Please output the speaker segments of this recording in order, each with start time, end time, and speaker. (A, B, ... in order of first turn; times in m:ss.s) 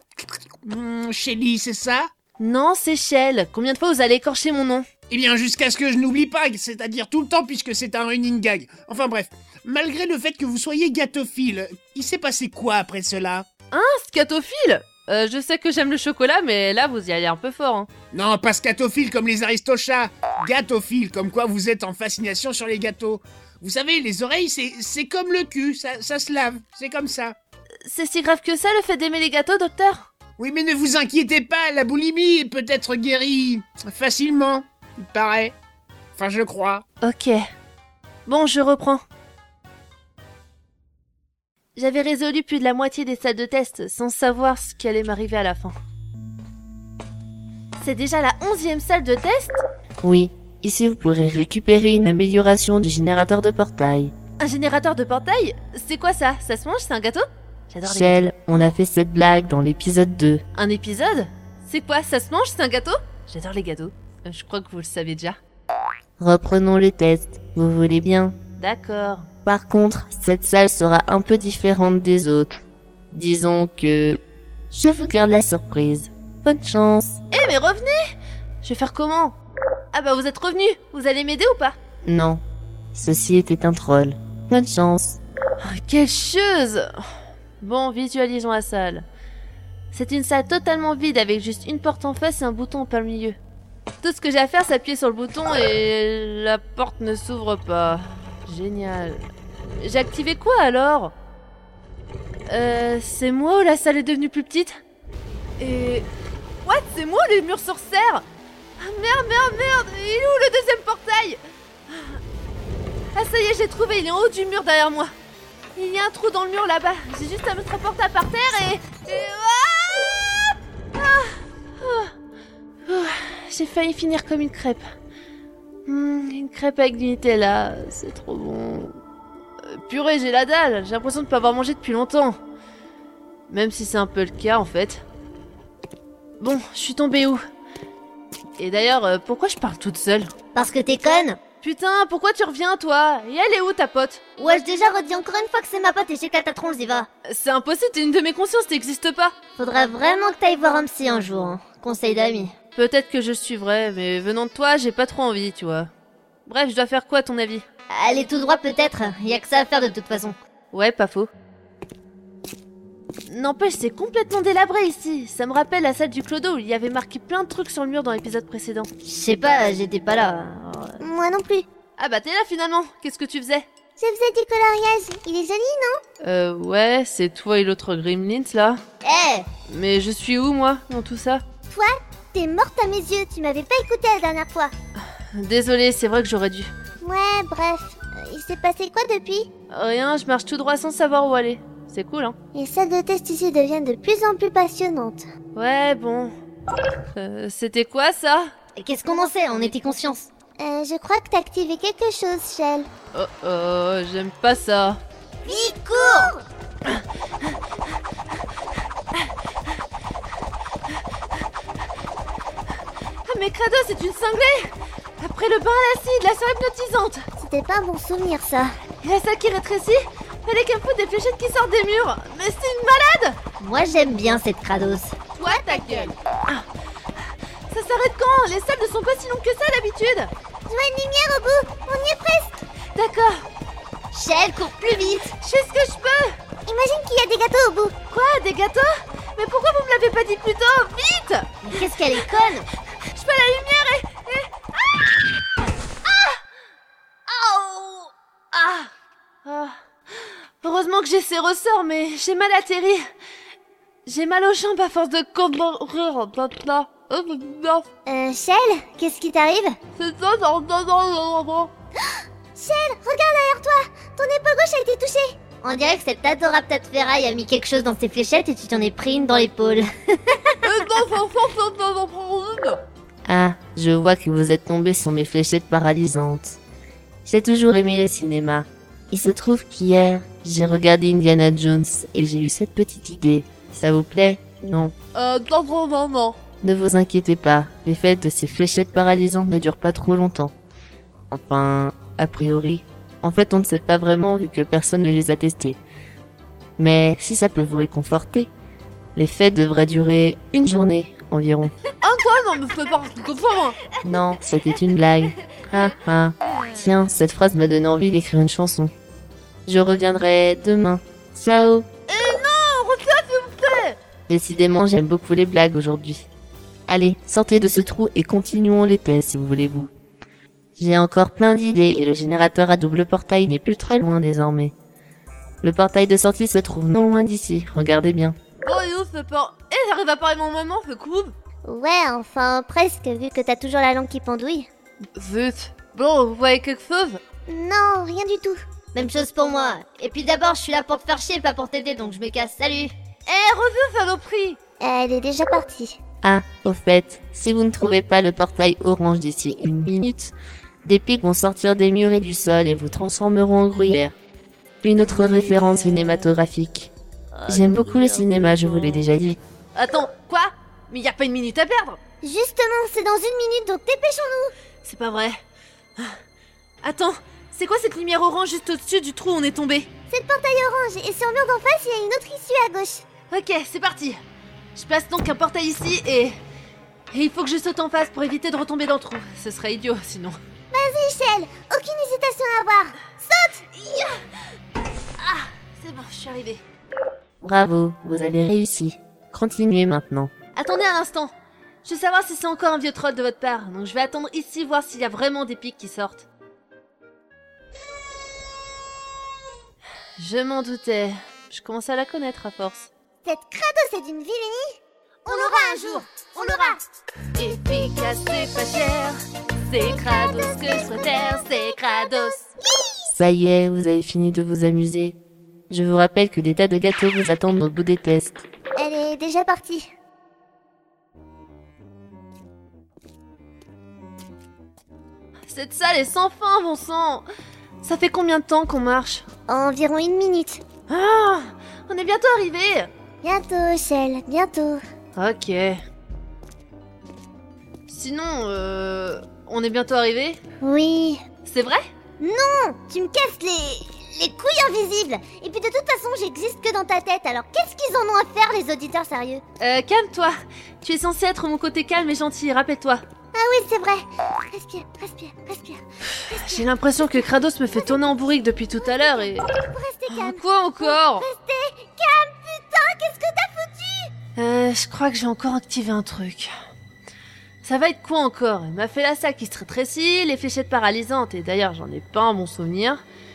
0:00.6-0:02.1 A
0:02.4-0:04.8 B
0:05.1-0:13.5 A
0:13.7-0:17.9 B
0:18.1-0:27.4 A
0:27.9-0:30.1 B
0:30.4-0:35.6 A
0:36.2-0:36.8 A
0:37.0-0:37.4 B
0:38.3-0:39.0 B
0:41.8-0:45.7 B
0:47.8-0:49.6 B
0:50.0-0:54.1 C
0:54.4-0:58.3 B
0:57.8-1:00.4 C
1:00.6-1:05.4 B
1:06.2-1:08.4 C
1:08.6-1:09.3 B
1:09.4-1:12.5 C
1:13.1-1:14.2 C
1:14.7-1:17.2 C
1:17.3-1:18.0 B
1:18.6-1:19.4 B
1:19.9-1:21.8 B
1:22.0-1:22.4 C
1:22.9-1:25.2 C
1:25.6-1:26.9 B
1:27.6-1:29.1 B
1:29.9-1:33.4 B
1:34.0-1:39.2 B
1:39.8-1:41.1 B
1:42.5-1:44.8 B
1:45.6-1:46.1 B
1:46.6-1:48.2 B
1:48.8-1:52.2 B
1:53.1-1:55.1 B
1:55.8-2:02.1 B
2:02.9-2:04.8 B
2:05.9-2:09.0 B
2:09.7-2:12.4 B
2:13.5-2:15.0 B
2:16.4-2:17.4 B
2:18.6-2:20.3 B
2:20.6-2:21.4 D
2:21.6-2:24.2 B
2:24.4-2:27.1 D
2:27.3-2:29.4 B
2:29.6-2:32.5 D
2:32.8-2:35.9 B
2:36.5-2:37.6 B
2:37.9-2:40.4 D
2:40.7-2:41.3 B
2:43.3-2:48.9 B
2:49.0-2:51.0 D
2:51.0-2:51.7 E
2:52.0-2:53.7 B
2:54.0-2:56.0 E
2:56.2-2:58.8 B
2:59.0-2:59.5 D
2:59.7-3:01.4 B
3:01.7-3:04.7 E
3:05.4-3:06.7 B
3:07.0-3:09.5 E
3:09.7-3:12.4 B
3:12.5-3:15.2 E
3:15.6-3:16.3 B
3:17.1-3:18.5 B
3:18.8-3:20.3 D
3:20.6-3:22.9 E
3:23.1-3:25.0 B
3:25.5-3:26.4 E
3:25.5-3:26.3 D
3:33.2-3:37.3 B
3:37.4-3:38.8 E
3:39.0-3:43.4 B
3:43.6-3:45.2 D
3:45.4-3:46.6 B
3:45.4-3:46.1 E
3:47.7-3:50.3 B
3:50.7-3:52.6 E
3:53.0-3:53.5 B
3:54.1-3:55.2 D
3:54.9-3:55.3 E
3:54.9-3:56.3 B
3:56.7-3:58.0 E
3:58.1-4:01.5 B
4:01.6-4:02.6 D
4:03.1-4:04.5 B
4:06.1-4:06.4 B
4:07.3-4:08.9 B
4:09.4-4:13.0 B
4:14.1-4:17.9 B
4:18.1-4:19.8 E
4:20.0-4:21.7 B
4:22.6-4:25.4 E
4:25.6-4:30.6 D
4:30.6-4:32.8 B
4:33.3-4:36.6 C
4:37.2-4:44.9 C
4:45.2-4:46.4 B
4:46.6-4:50.5 C
4:51.3-4:55.8 C
4:56.8-4:58.5 C
4:59.2-5:01.7 C
5:02.0-5:03.8 B
5:04.0-5:08.9 C
5:09.7-5:11.9 C
5:12.1-5:14.0 B
5:14.3-5:16.3 C
5:16.9-5:19.9 C
5:20.8-5:24.7 C
5:25.6-5:28.4 C
5:28.6-5:31.3 B
5:31.6-5:34.7 E
5:35.2-5:37.2 B
5:37.5-5:38.6 E
5:38.9-5:42.9 D
5:43.3-5:44.6 B
5:44.8-5:46.0 E
5:46.2-5:54.2 C
5:54.8-5:56.9 C
5:55.2-5:56.2 B
5:57.4-5:59.0 B
5:57.5-5:59.4 C
5:59.8-6:02.0 B
6:02.2-6:04.5 E
6:04.8-6:05.4 B
6:06.8-6:09.9 B
6:10.1-6:13.0 E
6:13.3-6:14.2 B
6:14.8-6:16.4 B
6:17.1-6:20.4 B
6:20.7-6:23.6 E
6:23.8-6:24.1 B
6:25.2-6:26.6 B
6:27.4-6:30.3 C
6:30.6-6:31.3 B
6:31.8-6:36.3 B
6:40.2-6:42.9 B
6:43.2-6:46.8 E
6:45.3-6:46.6 B
6:47.4-6:49.2 B
6:49.7-6:52.5 B
6:53.2-6:55.2 C
6:55.7-6:58.4 C
6:58.8-6:59.9 E
7:05.5-7:07.3 B
7:07.8-7:09.2 B
7:09.5-7:10.6 E
7:10.9-7:12.9 B
7:13.2-7:14.8 E
7:15.2-7:15.8 B
7:17.9-7:20.4 B
7:20.6-7:21.2 E
7:21.4-7:21.8 B
7:22.2-7:29.4 E
7:29.6-7:33.0 B
7:33.3-7:44.1 E
7:36.3-7:39.5 B
7:40.1-7:41.3 B
7:44.4-7:46.5 B
7:47.6-7:53.0 B